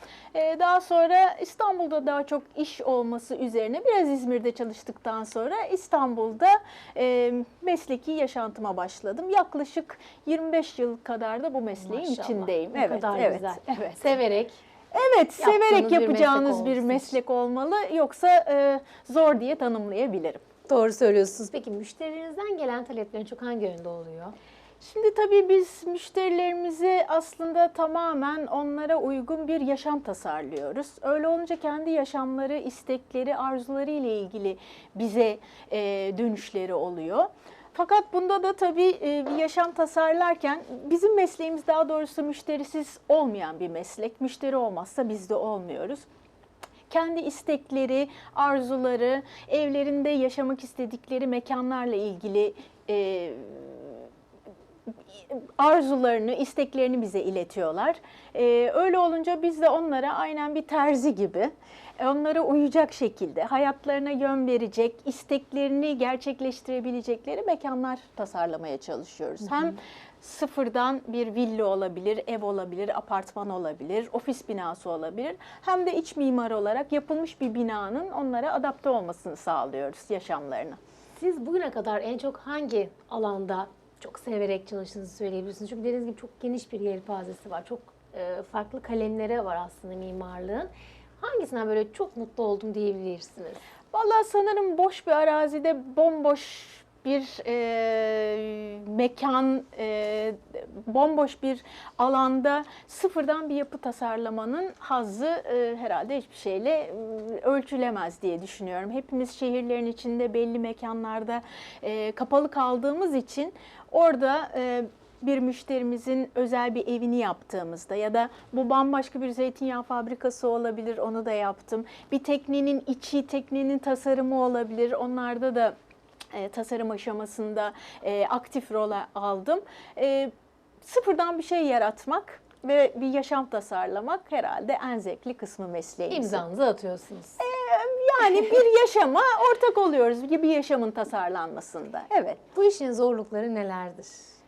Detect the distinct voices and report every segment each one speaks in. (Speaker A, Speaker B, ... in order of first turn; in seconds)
Speaker A: 0.3-14.1, 14.9-20.4, 24.8-46.1, 46.9-54.1, 55.1-80.8, 93.9-125.8, 126.3-130.3, 130.8-136.4, 137.4-142.4
Speaker B: 11.8-14.6, 15.4-17.1, 20.7-24.4, 81.2-90.7, 91.2-93.6, 136.1-137.4, 142.5-144.3